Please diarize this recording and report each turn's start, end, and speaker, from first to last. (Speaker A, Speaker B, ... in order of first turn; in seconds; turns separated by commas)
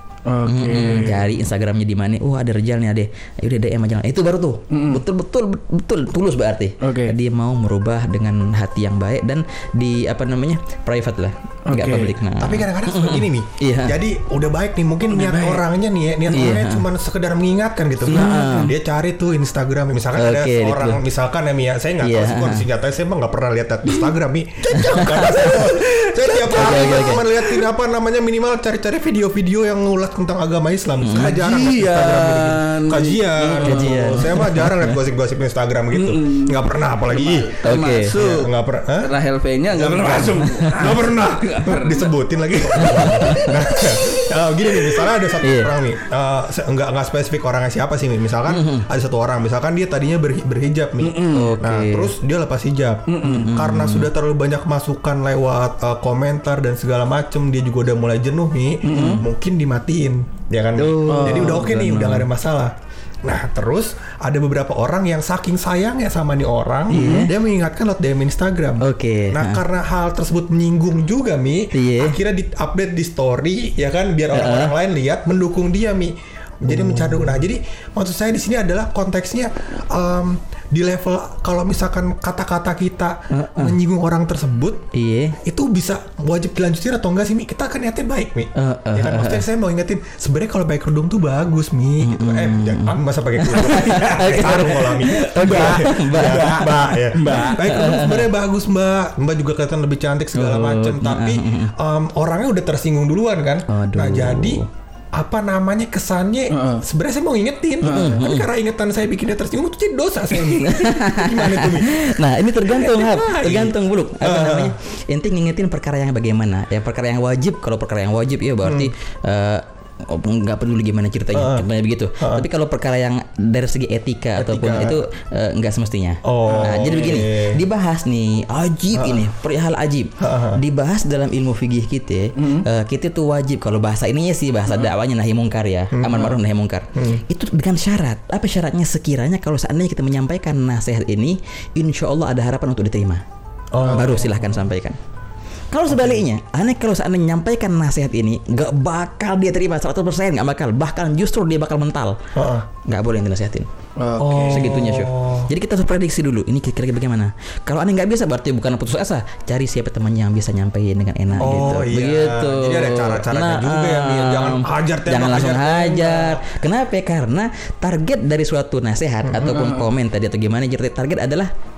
Speaker A: 0.3-1.3, Speaker B: 0.4-14.0, Speaker A: 4.7-5.0, Speaker A: 6.8-7.1, Speaker A: 11.7-12.1, Speaker C: 12.4-37.6, Speaker A: 15.1-15.6, Speaker B: 16.3-16.9, Speaker B: 18.1-18.7, Speaker A: 18.1-18.7, Speaker B: 20.1-21.0, Speaker B: 22.0-22.7, Speaker B: 24.7-25.7, Speaker A: 24.9-27.6, Speaker B: 26.5-27.2, Speaker B: 31.0-31.4, Speaker A: 31.1-34.4, Speaker B: 33.4-35.0, Speaker A: 35.9-38.5, Speaker B: 37.6-38.1, Speaker C: 38.1-39.1, Speaker A: 39.0-42.1, Speaker C: 39.7-62.7, Speaker B: 42.8-43.5, Speaker A: 42.9-44.2, Speaker B: 45.4-45.7, Speaker B: 48.5-48.9, Speaker A: 51.0-51.5, Speaker B: 51.3-52.1, Speaker A: 53.1-53.5, Speaker B: 53.2-54.1, Speaker A: 58.8-59.2, Speaker B: 58.9-59.2, Speaker B: 60.8-62.3, Speaker A: 61.1-61.7, Speaker C: 63.2-84.9, Speaker A: 66.9-67.3, Speaker B: 66.9-67.3, Speaker B: 68.8-69.6, Speaker B: 71.7-72.2, Speaker B: 74.3-74.7, Speaker B: 76.7-77.3, Speaker B: 83.3-83.8, Speaker B: 84.9-85.4, Speaker C: 85.4-114.7, Speaker B: 88.5-89.4, Speaker B: 92.0-98.3, Speaker A: 93.7-97.6, Speaker B: 100.3-101.7, Speaker B: 103.7-104.7, Speaker A: 106.5-106.8, Speaker A: 107.8-108.2, Speaker B: 107.9-108.5, Speaker B: 110.4-143.2, Speaker C: 118.6-118.9, Speaker C: 121.3-121.7, Speaker C: 122.2-122.4, Speaker C: 124.4-125.0, Speaker C: 126.2-127.6, Speaker A: 126.5-127.0, Speaker C: 128.9-129.2, Speaker C: 130.2-130.6, Speaker A: 132.3-132.6, Speaker C: 135.9-136.4, Speaker C: 136.9-137.2, Speaker C: 143.7-144.3, Speaker B: 143.9-145.0, Speaker B: 145.7-152.2, Speaker C: 152.3-152.7, Speaker B: 152.8-153.7, Speaker A: 154.0-154.7, Speaker C: 154.2-155.5, Speaker B: 154.5-171.5, Speaker C: 161.4-166.5, Speaker C: 169.3-169.7, Speaker A: 169.4-169.8